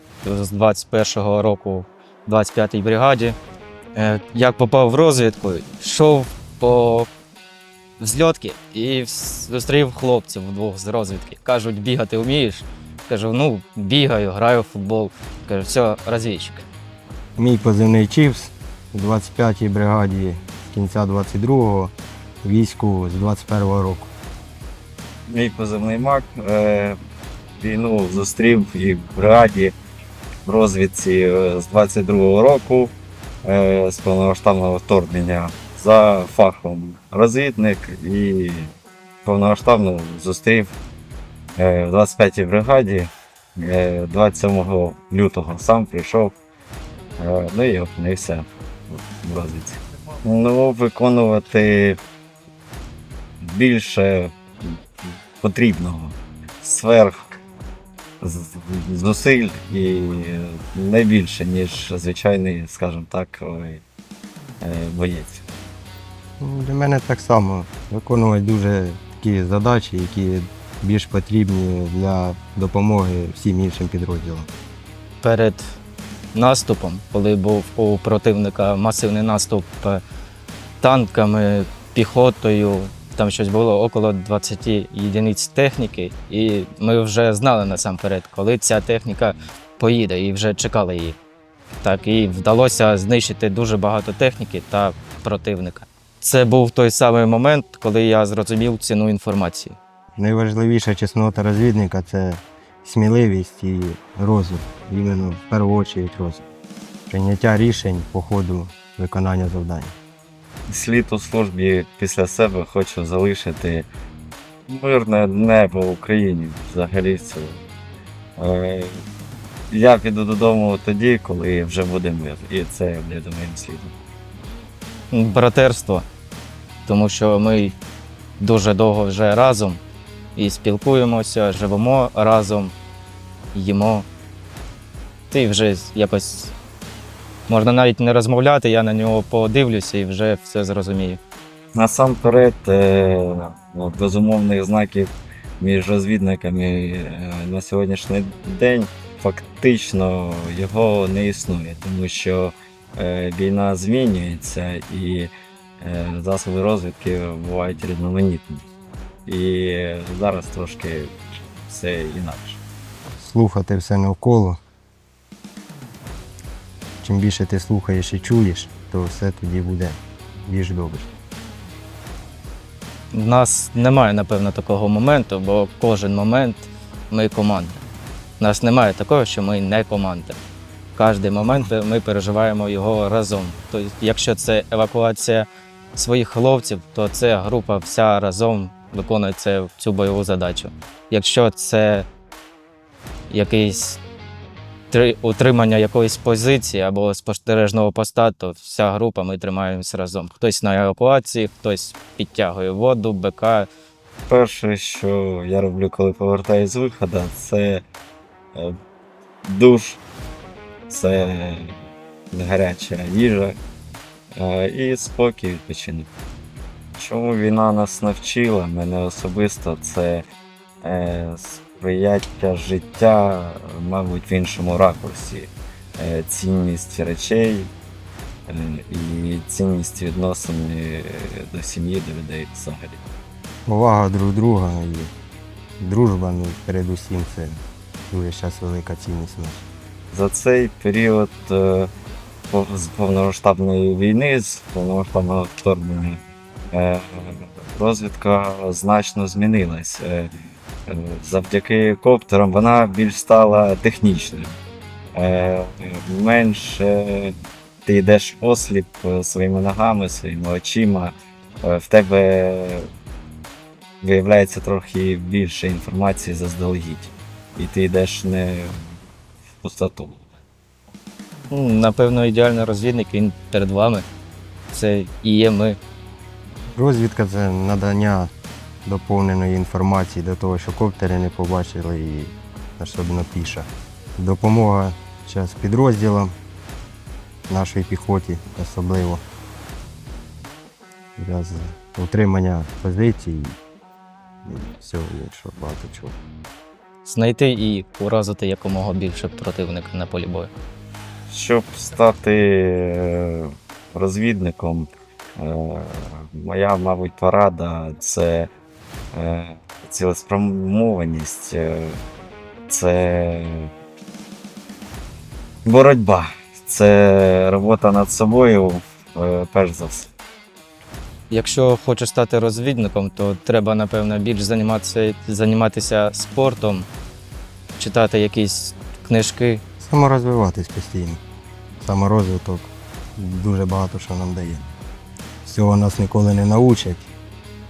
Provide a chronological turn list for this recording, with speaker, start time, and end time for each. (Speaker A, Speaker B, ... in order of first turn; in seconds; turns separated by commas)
Speaker A: 0.2-3.4, Speaker A: 4.0-7.1, Speaker A: 8.0-16.6, Speaker B: 17.4-24.1, Speaker C: 25.3-27.0, Speaker C: 27.6-29.7, Speaker C: 30.5-38.7, Speaker C: 39.2-40.8, Speaker C: 41.6-46.3, Speaker C: 47.2-52.0, Speaker C: 53.4-57.4, Speaker C: 58.2-63.8, Speaker C: 64.6-65.4, Speaker B: 66.4-74.5, Speaker A: 75.2-75.8, Speaker A: 76.3-80.0, Speaker A: 80.8-91.2, Speaker A: 91.8-99.8, Speaker B: 100.2-106.5, Speaker B: 107.1-110.0, Speaker C: 110.7-113.9, Speaker C: 114.7-117.6, Speaker C: 118.4-119.0, Speaker C: 119.7-123.9, Speaker A: 125.1-126.1, Speaker A: 126.9-127.8, Speaker A: 128.4-129.8, Speaker A: 130.4-132.7, Speaker A: 133.5-134.1, Speaker A: 135.3-136.5, Speaker A: 137.5-141.2, Speaker C: 141.8-158.6, Speaker C: 159.3-162.6, Speaker B: 163.2-164.6, Speaker B: 167.0-171.1, Speaker A: 173.1-177.8, Speaker A: 178.4-180.4, Speaker A: 180.9-192.1, Speaker A: 193.3-194.0, Speaker A: 194.9-203.7, Speaker C: 204.3-207.8, Speaker C: 209.4-210.0, Speaker C: 210.9-211.7, Speaker C: 212.3-213.6, Speaker C: 214.4-216.1, Speaker C: 216.9-220.2, Speaker C: 220.8-227.7, Speaker C: 228.5-233.0, Speaker B: 233.7-235.1, Speaker B: 235.8-239.7, Speaker C: 240.1-241.9, Speaker C: 242.5-246.2, Speaker C: 246.7-250.3, Speaker C: 250.9-254.5, Speaker C: 255.2-262.9, Speaker C: 264.0-269.0, Speaker C: 269.6-270.2, Speaker A: 271.5-274.1, Speaker A: 274.7-275.8, Speaker B: 276.8-278.3, Speaker B: 278.9-286.4, Speaker B: 287.5-289.2, Speaker B: 291.2-293.6, Speaker B: 294.4-296.2, Speaker A: 297.0-300.5, Speaker C: 301.3-308.5, Speaker C: 309.1-312.0, Speaker C: 312.7-313.7, Speaker C: 315.6-320.1, Speaker A: 321.3-326.9, Speaker A: 327.8-329.6, Speaker B: 329.8-331.2, Speaker B: 331.8-334.7, Speaker B: 335.4-337.1